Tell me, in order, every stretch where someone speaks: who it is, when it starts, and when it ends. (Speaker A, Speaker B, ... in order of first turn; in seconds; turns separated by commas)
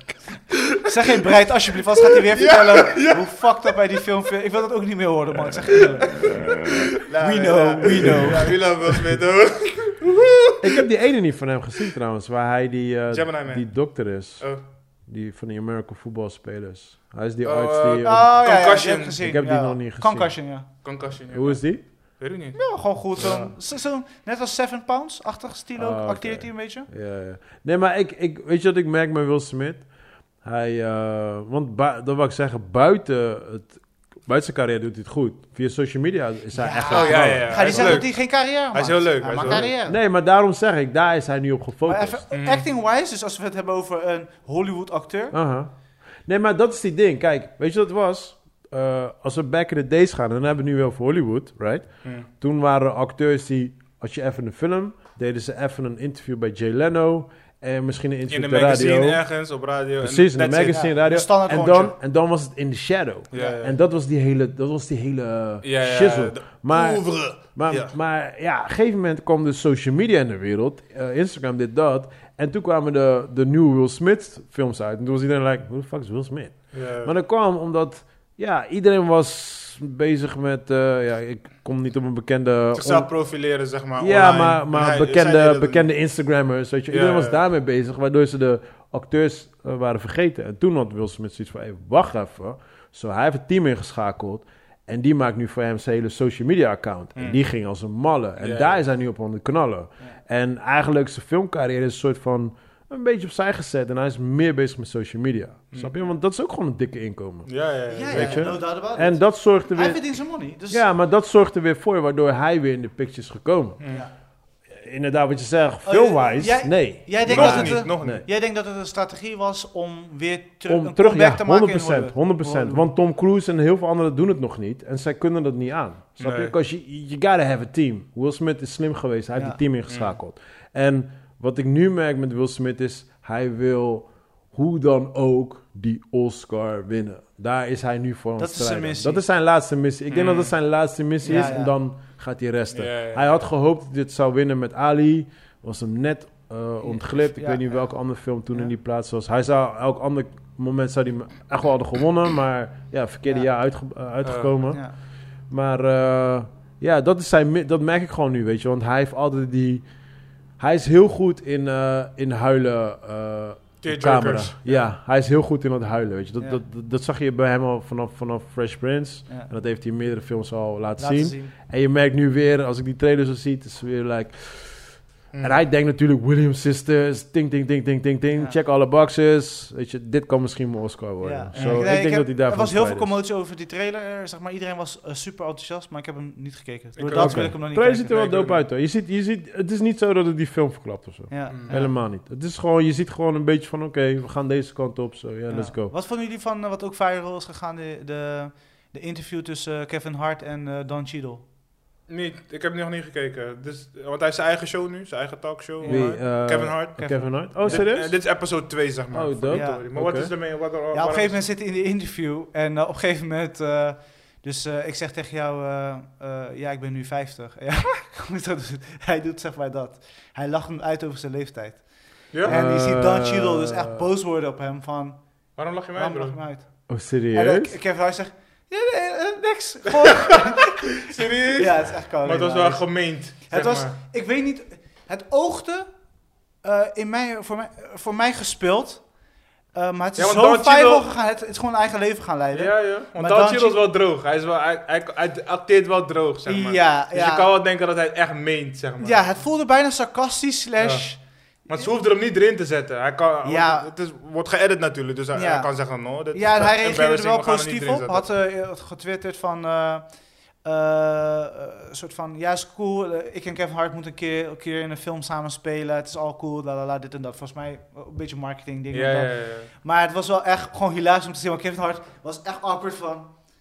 Speaker A: 0.8-6.6, Speaker B: 2.1-3.8, Speaker B: 5.9-10.9, Speaker A: 7.2-8.6, Speaker C: 10.6-14.5, Speaker B: 13.1-14.6, Speaker C: 15.0-18.4, Speaker B: 17.4-19.2, Speaker A: 18.0-20.7, Speaker C: 19.2-20.4, Speaker B: 20.8-22.6, Speaker C: 21.3-21.8, Speaker A: 22.5-26.9, Speaker C: 23.1-23.6, Speaker C: 25.8-29.9, Speaker C: 30.4-38.0, Speaker A: 36.5-40.0, Speaker B: 36.9-39.7, Speaker C: 39.4-42.2, Speaker A: 41.9-45.4, Speaker B: 42.3-42.6, Speaker C: 45.3-59.2, Speaker B: 52.0-52.3, Speaker B: 58.3-60.9, Speaker C: 60.0-83.1, Speaker A: 60.7-61.9, Speaker B: 63.3-63.8, Speaker B: 65.6-67.9, Speaker B: 76.7-77.1, Speaker B: 82.7-85.9, Speaker C: 84.0-107.5, Speaker B: 86.9-87.4, Speaker B: 97.2-97.4, Speaker B: 98.4-98.8, Speaker B: 107.5-108.5, Speaker A: 107.9-110.8, Speaker C: 108.0-110.1, Speaker C: 110.7-113.8, Speaker B: 113.8-114.0, Speaker C: 114.7-118.2, Speaker A: 115.8-122.9, Speaker B: 117.2-118.2, Speaker C: 120.7-154.8, Speaker B: 126.2-126.5, Speaker B: 129.9-130.2, Speaker A: 138.4-139.2, Speaker B: 140.1-140.5, Speaker A: 141.2-141.7, Speaker B: 142.7-143.4, Speaker A: 146.8-148.0, Speaker B: 154.2-154.5, Speaker A: 154.7-154.9, Speaker C: 155.5-159.8, Speaker C: 160.6-183.1, Speaker B: 163.8-164.6, Speaker A: 171.0-171.5, Speaker B: 175.3-175.6, Speaker A: 181.2-188.2, Speaker B: 181.5-181.9, Speaker B: 187.0-188.6, Speaker C: 187.1-195.9, Speaker A: 191.3-191.9, Speaker B: 191.5-191.8, Speaker A: 195.5-201.4, Speaker B: 202.1-211.4, Speaker A: 205.8-206.2, Speaker C: 205.9-208.2, Speaker A: 207.0-207.9, Speaker C: 209.1-210.3, Speaker A: 209.5-209.9, Speaker A: 210.9-236.1, Speaker C: 222.4-224.0, Speaker B: 225.6-226.4, Speaker C: 226.9-227.8, Speaker B: 231.0-234.0, Speaker A: 236.6-239.1, Speaker A: 239.7-243.8, Speaker B: 240.2-241.1, Speaker B: 242.5-249.4, Speaker A: 246.4-247.5, Speaker A: 249.0-251.2, Speaker B: 250.8-251.1, Speaker B: 251.7-258.3, Speaker A: 253.4-253.9, Speaker A: 255.3-255.7, Speaker A: 256.3-273.3, Speaker B: 268.9-269.7